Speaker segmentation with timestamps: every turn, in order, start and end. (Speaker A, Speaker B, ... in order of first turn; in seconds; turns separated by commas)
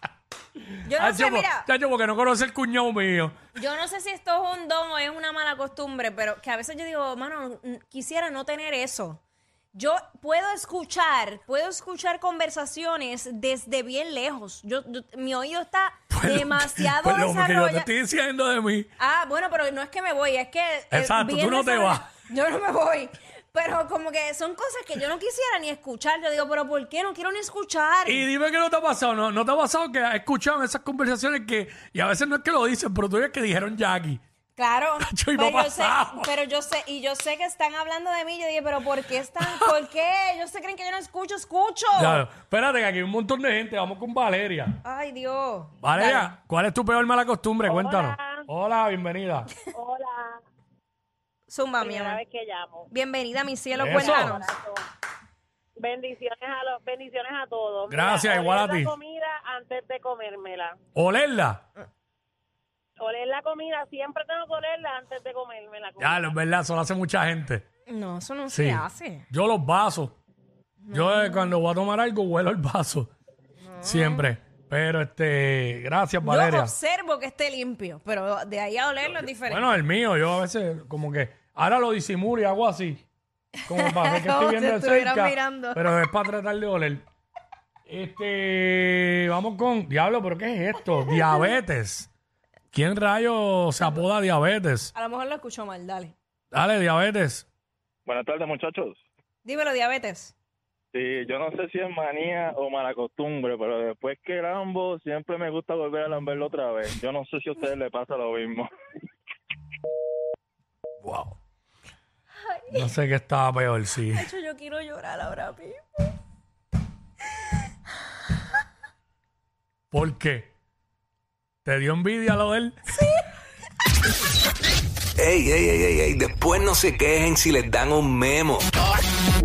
Speaker A: 0.8-1.7, Speaker B: 0.9-3.4, Speaker A: 3.5-9.2, Speaker A: 9.7-17.9, Speaker B: 16.1-18.9, Speaker A: 19.0-28.3, Speaker B: 20.9-22.1, Speaker B: 28.1-34.2, Speaker A: 34.6-42.2, Speaker B: 35.0-36.3, Speaker B: 39.4-39.7, Speaker B: 42.0-44.8, Speaker A: 44.8-46.3, Speaker B: 45.8-49.5, Speaker C: 47.6-48.5, Speaker C: 49.7-50.4, Speaker A: 51.5-52.2, Speaker C: 51.8-52.9, Speaker A: 52.9-54.5, Speaker B: 53.8-54.4, Speaker C: 53.9-54.9, Speaker C: 55.8-60.8, Speaker B: 57.9-59.0, Speaker B: 61.0-61.6, Speaker C: 63.0-66.3, Speaker B: 66.0-67.7, Speaker A: 67.9-69.3, Speaker B: 68.5-70.2, Speaker A: 70.8-71.6, Speaker B: 70.9-73.1, Speaker A: 73.6-74.3, Speaker B: 73.8-76.7, Speaker A: 76.2-79.7, Speaker B: 79.5-83.0, Speaker A: 83.6-86.0, Speaker B: 83.7-87.0, Speaker B: 87.9-92.1, Speaker A: 91.0-91.5, Speaker B: 92.7-94.9, Speaker A: 94.9-96.1, Speaker B: 96.5-97.5, Speaker D: 98.1-99.0, Speaker A: 99.4-100.3, Speaker D: 100.9-108.7, Speaker B: 111.0-111.4, Speaker A: 112.4-112.9, Speaker B: 112.7-114.3, Speaker A: 114.1-115.8, Speaker B: 119.9-120.5, Speaker B: 121.7-122.8, Speaker E: 125.2-128.7